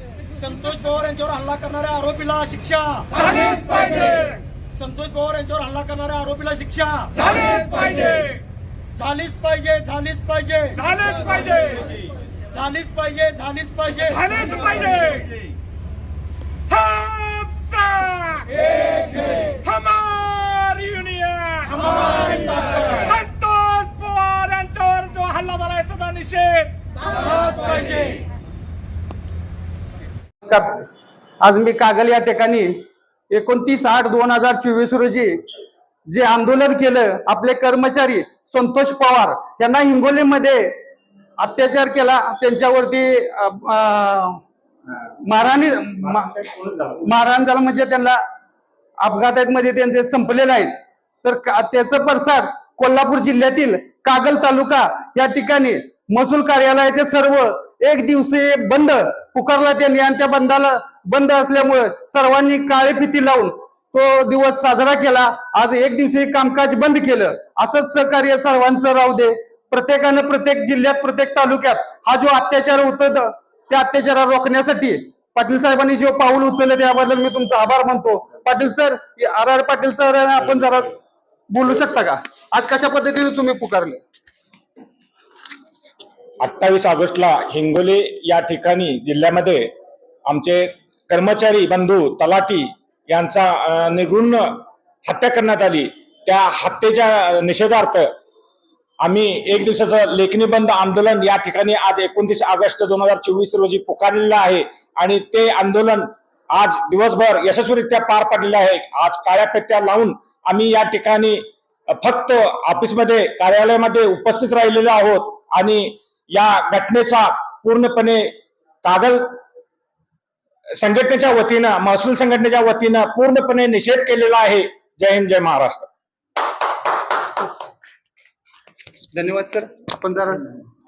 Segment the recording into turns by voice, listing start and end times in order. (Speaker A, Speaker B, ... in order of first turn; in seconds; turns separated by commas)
Speaker A: 0.3-8.3, Speaker A: 8.9-10.9, Speaker B: 10.8-11.8, Speaker A: 12.5-14.6, Speaker B: 14.2-15.3, Speaker B: 16.7-18.6, Speaker B: 19.5-22.4, Speaker B: 22.9-26.7, Speaker C: 30.4-30.9, Speaker C: 31.4-35.4, Speaker C: 36.1-40.8, Speaker C: 41.4-44.4, Speaker C: 45.2-48.2, Speaker C: 49.0-81.0, Speaker C: 81.5-84.0, Speaker D: 86.4-89.7, Speaker D: 90.2-98.1, Speaker D: 99.0-119.4, Speaker D: 120.8-125.9, Speaker C: 129.1-130.6